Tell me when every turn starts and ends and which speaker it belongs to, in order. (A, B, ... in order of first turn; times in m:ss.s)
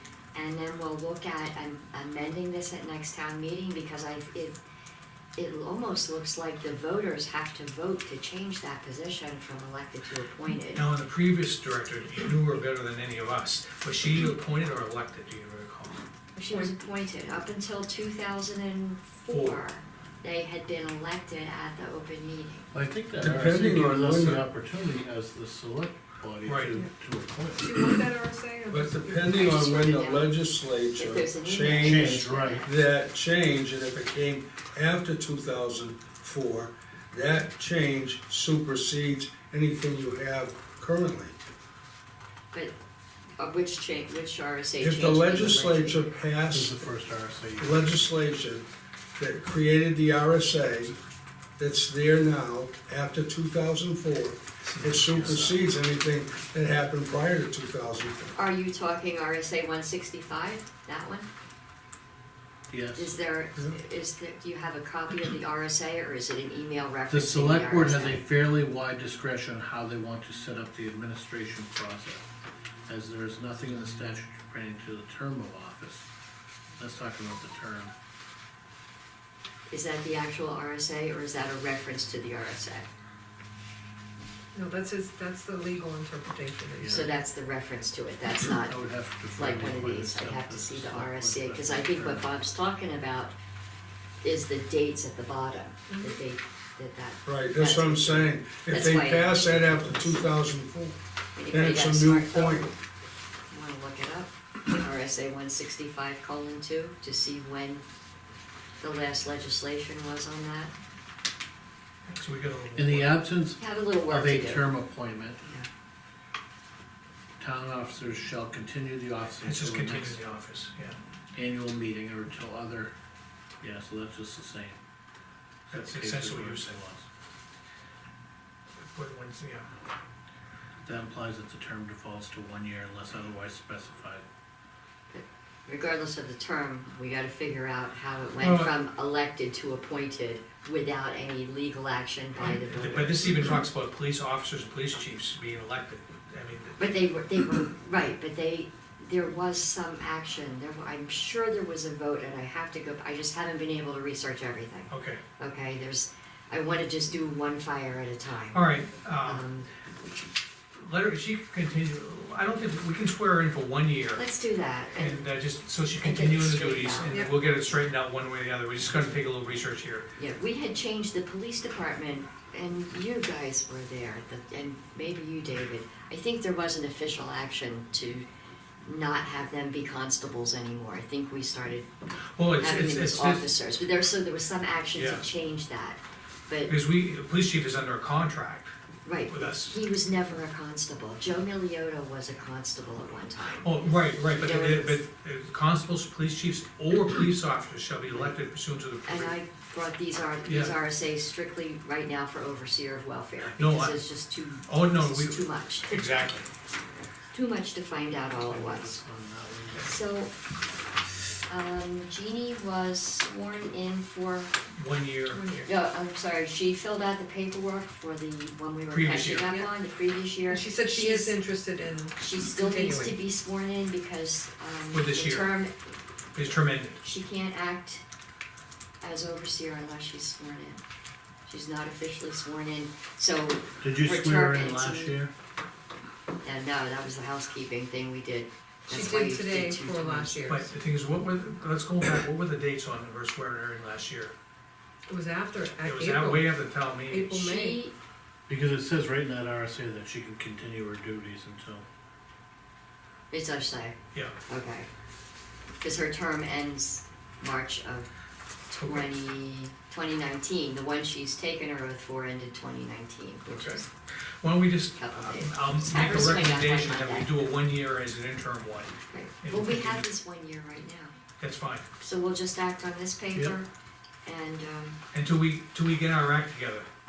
0:00.3-0:04.6 A
0:05.4-0:10.8 A
0:10.7-0:16.0 B
0:16.4-0:22.7 A
0:19.3-0:19.6 B
0:22.7-0:27.8 C
0:23.2-0:24.4 D
0:26.4-0:26.8 B
0:27.6-0:29.4 E
0:28.7-0:41.4 D
0:29.3-0:30.4 A
0:30.9-0:32.7 A
0:31.8-0:32.7 C
0:43.4-0:46.1 A
0:44.8-0:46.8 D
0:46.5-0:47.8 C
0:47.6-0:48.6 D
0:49.2-0:51.0 D
0:51.6-0:58.3 D
0:54.6-0:55.4 B
0:55.2-0:55.6 C
0:58.4-1:01.3 A
1:02.7-1:03.2 C
1:02.9-1:08.2 A
1:07.1-1:12.3 C
1:12.9-1:16.1 C
1:16.8-1:17.9 C
1:19.7-1:22.9 A
1:24.5-1:27.1 E
1:26.8-1:27.1 C
1:26.8-1:28.8 A
1:28.4-1:32.3 C
1:29.3-1:33.4 A
1:34.2-1:40.2 A
1:35.9-1:36.2 E
1:37.2-1:41.0 D
1:41.4-1:42.7 A
1:41.5-1:42.7 D
1:43.5-1:47.8 A
1:48.8-1:50.7 A
1:52.1-1:53.2 B
1:52.8-1:55.4 C
1:53.6-1:54.7 A
1:55.4-1:55.7 A
1:57.4-2:00.2 C
1:59.4-2:01.0 B
2:01.3-2:02.9 C
2:03.6-2:04.8 C
2:05.7-2:07.1 C
2:05.7-2:06.8 B
2:08.8-2:09.7 B
2:10.8-2:14.2 C
2:15.1-2:23.6 A
2:18.4-2:18.8 B
2:22.4-2:26.9 B
2:26.8-2:38.6 A
2:34.9-2:35.2 B
2:38.5-2:39.5 B
2:39.2-2:39.7 A
2:40.8-2:44.2 B
2:44.2-2:45.2 A
2:44.9-2:50.1 B
2:46.0-2:47.3 A
2:50.2-2:58.3 A
2:58.8-3:01.9 A
3:02.4-3:03.5 B
3:02.6-3:06.7 A
3:04.9-3:05.3 B
3:06.7-3:08.7 B
3:09.0-3:15.0 A
3:09.3-3:09.8 B
3:13.6-3:19.4 B
3:18.1-3:18.4 A
3:19.0-3:26.1 A
3:20.4-3:20.8 B
3:23.6-3:24.0 B
3:24.7-3:26.5 B
3:27.3-3:29.0 A
3:28.3-3:30.0 C
3:29.8-3:30.3 A
3:31.5-3:34.5 A
3:34.8-3:35.4 B
3:35.3-3:35.7 E
3:35.6-3:41.4 A
3:38.9-3:39.5 B
3:39.5-3:39.7 E
3:40.5-3:43.2 E
3:42.2-3:45.8 A
3:44.9-3:45.6 B
3:46.3-3:47.0 B
3:47.0-3:48.0 A
3:49.0-3:50.8 A
3:51.5-3:55.2 A
3:53.8-3:55.3 C
3:56.4-4:00.5 A
3:58.9-4:00.7 E
4:00.5-4:04.3 B
4:05.1-4:07.8 E
4:05.8-4:07.4 B
4:07.3-4:07.9 A
4:08.5-4:11.8 C
4:13.3-4:14.0 A
4:14.5-4:14.9 A
4:15.8-4:18.1 A
4:18.7-4:23.9 A
4:18.7-4:19.2 B
4:23.5-4:30.1 B
4:25.0-4:27.4 A
4:29.1-4:31.2 A
4:31.4-4:31.9 B
4:32.0-4:33.7 A
4:34.2-4:35.0 A
4:35.1-4:36.9 B